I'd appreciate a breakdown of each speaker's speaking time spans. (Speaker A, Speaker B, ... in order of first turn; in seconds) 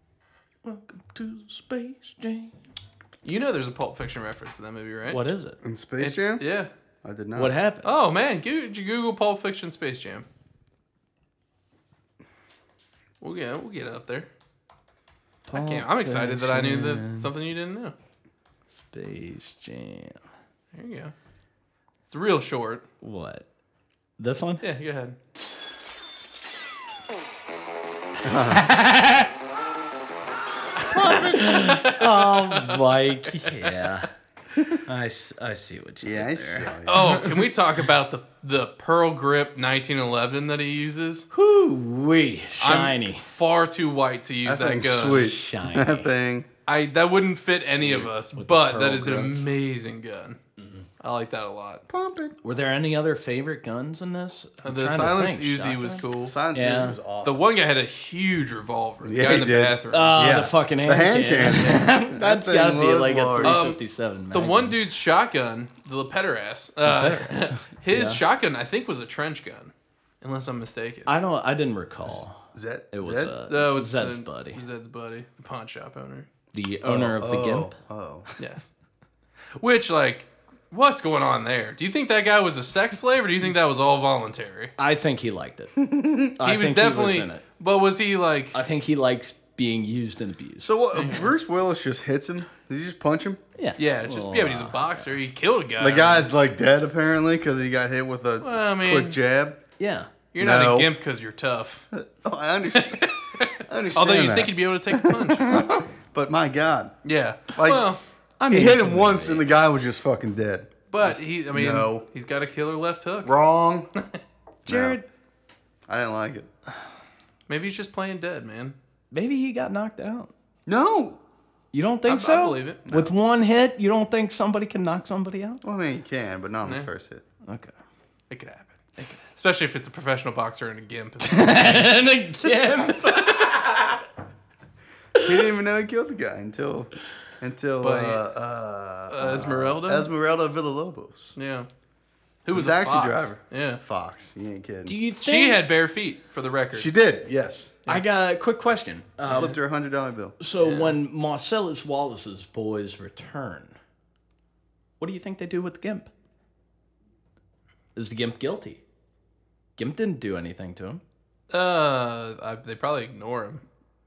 Speaker A: 0.6-2.5, 5.1-5.6, 7.4-8.0, 15.4-17.3, 18.7-20.2, 23.0-23.4, 24.2-24.6, 28.5-29.3, 31.3-34.1, 34.9-37.2, 41.3-43.3, 45.1-46.1, 47.5-49.5, 50.6-50.9, 52.4-57.0, 59.9-64.8, 66.8-68.2, 71.1-72.4, 72.9-74.6, 76.5-77.7, 84.8-87.4, 88.5-90.7, 93.6-95.1, 99.8-100.1, 108.4-109.5, 114.7-115.0, 119.1-120.3, 121.7-125.6, 127.5-127.7, 131.2-134.0, 135.2-135.5, 144.9-145.6, 147.9-149.6, 150.4-153.8, 155.0-156.1, 157.9-158.8, 159.8-161.0
Speaker B: 3.2-5.2, 6.0-6.7, 7.8-10.3, 13.2-14.3, 15.5-17.9, 20.7-21.1, 22.1-22.9, 24.6-25.2, 30.9-33.7, 36.9-41.3, 42.6-45.3, 46.7-50.4, 51.0-51.8, 54.6-56.4, 57.2-60.1, 63.4-63.8, 64.3-71.1, 73.5-76.3, 78.4-78.7, 79.6-84.7, 86.4-88.6, 91.0-91.3, 93.8-96.3, 98.4-99.2, 100.3-101.9, 102.7-105.7, 107.0-108.0, 110.9-113.3, 117.5-118.8, 122.1-122.8, 128.3-131.9, 137.8-138.2, 139.1-140.1, 141.4-141.7, 142.4-143.8, 145.2-146.9, 150.6-151.0, 161.5-163.6
Speaker C: 5.6-6.4, 7.0-7.6, 28.2-28.6, 30.9-31.6, 36.0-37.3, 44.5-46.5, 51.9-52.4, 56.2-57.4, 59.0-63.6, 72.1-73.3, 76.8-78.3, 85.8-86.3, 90.6-93.4, 95.8-99.6, 100.4-100.9, 101.9-107.0, 107.5-107.9, 108.5-112.0, 113.2-113.9, 114.7-115.0, 115.9-116.5, 120.7-121.2, 122.9-123.1, 125.6-127.2, 135.2-141.3, 142.5-144.9, 146.7-148.0, 149.2-150.4